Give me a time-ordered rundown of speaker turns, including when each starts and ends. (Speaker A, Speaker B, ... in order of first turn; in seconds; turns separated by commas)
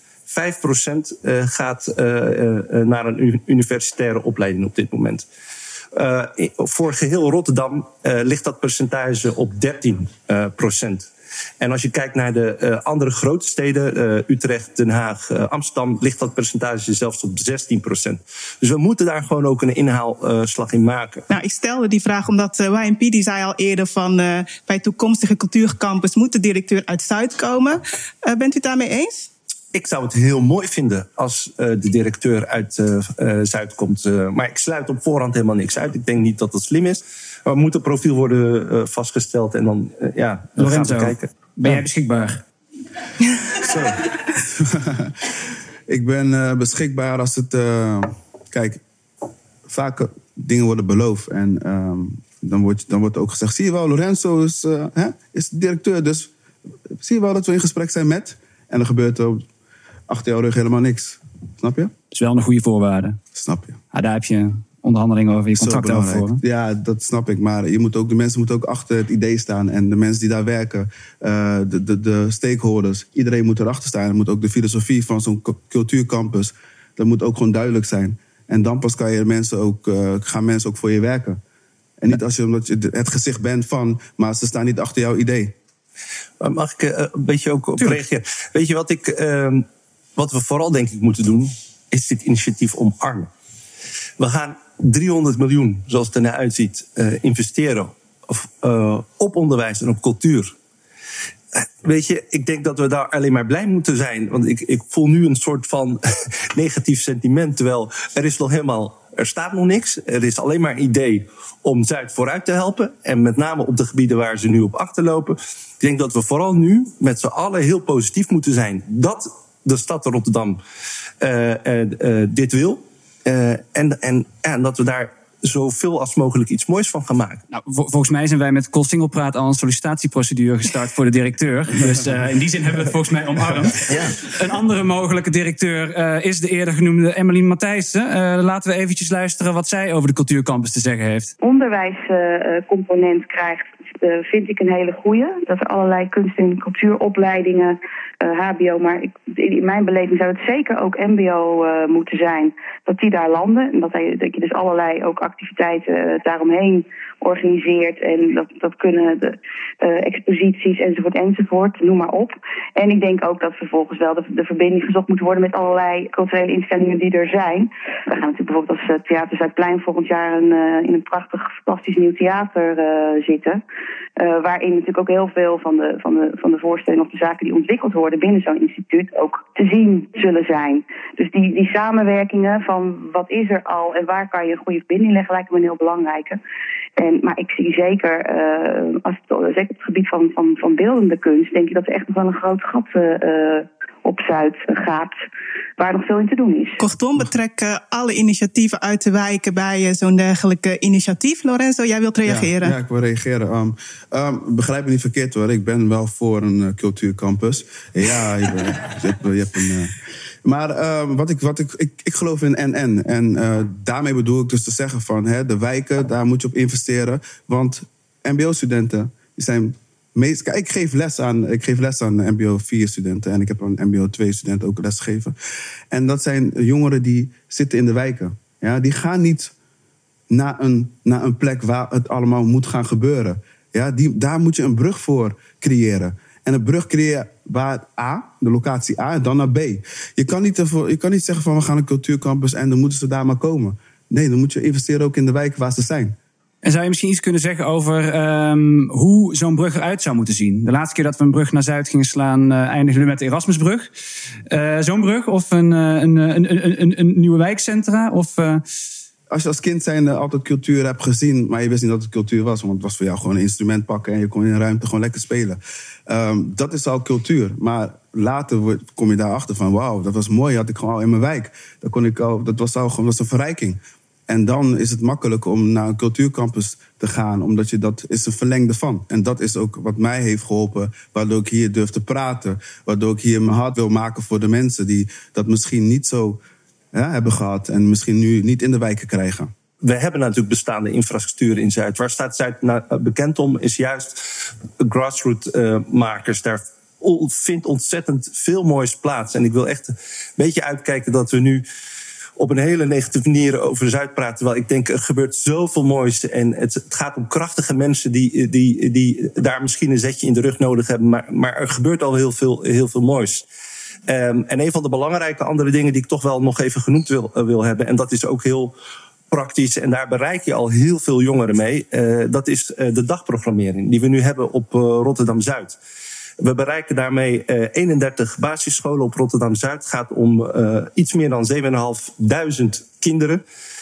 Speaker A: 0.3-5.2, Speaker A: 5.9-11.1, Speaker A: 11.6-21.3, Speaker B: 21.3-29.3, Speaker A: 29.7-41.3, Speaker C: 40.6-42.4, Speaker D: 44.5-45.3, Speaker D: 45.9-48.8, Speaker D: 49.7-56.3, Speaker D: 56.9-59.5, Speaker D: 60.1-61.9, Speaker C: 62.1-63.2, Speaker D: 63.4-63.8, Speaker C: 63.9-66.4, Speaker D: 65.6-81.4, Speaker D: 82.0-85.5, Speaker A: 86.4-89.7, Speaker A: 90.2-93.3, Speaker A: 94.2-100.5, Speaker A: 101.5-106.0, Speaker A: 106.5-120.6, Speaker A: 121.2-127.4, Speaker C: 127.5-141.3, Speaker E: 141.4-173.6, Speaker E: 174.2-186.4, Speaker E: 187.0-195.1, Speaker E: 195.8-196.8, Speaker B: 196.8-202.8, Speaker D: 202.3-209.9, Speaker D: 210.4-225.3, Speaker D: 225.9-229.5, Speaker D: 230.3-246.2, Speaker C: 246.6-253.9, Speaker C: 254.5-258.6, Speaker D: 259.3-286.4, Speaker D: 286.9-289.5, Speaker A: 289.8-294.2, Speaker A: 294.8-301.6, Speaker A: 302.4-313.5, Speaker A: 314.1-318.7, Speaker A: 319.3-325.8, Speaker A: 326.4-333.4